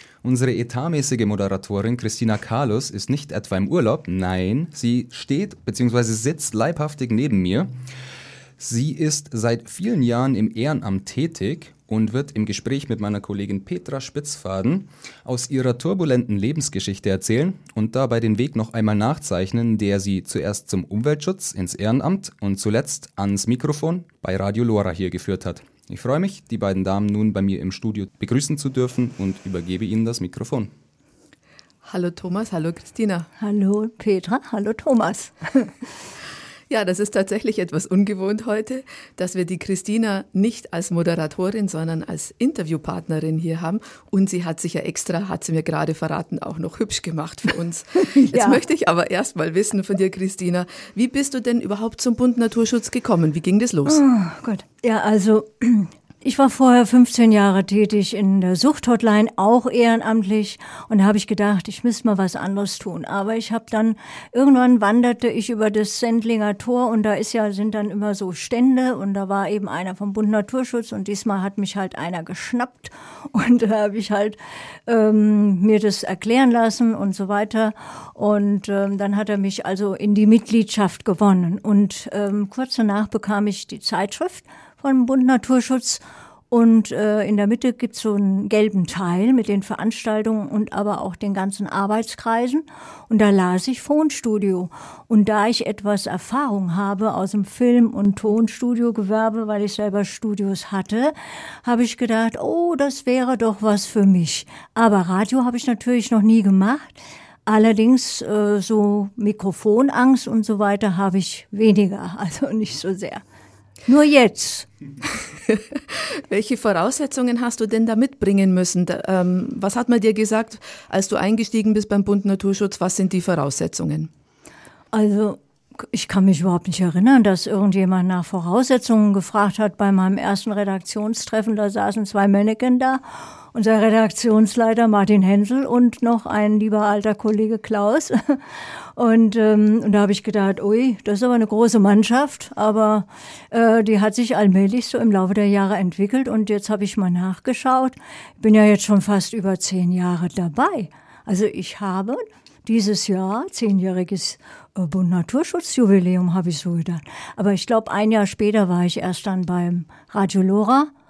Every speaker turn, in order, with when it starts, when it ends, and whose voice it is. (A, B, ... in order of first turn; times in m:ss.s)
0:00.2-0:07.7 A
0:08.6-0:30.7 A
0:31.8-0:33.3 B
0:33.4-0:35.7 C
0:36.7-0:54.0 B
0:48.2-0:48.6 C
0:53.9-1:53.2 C
1:53.9-1:54.7 C
1:56.2-2:04.1 B
2:04.9-2:40.9 C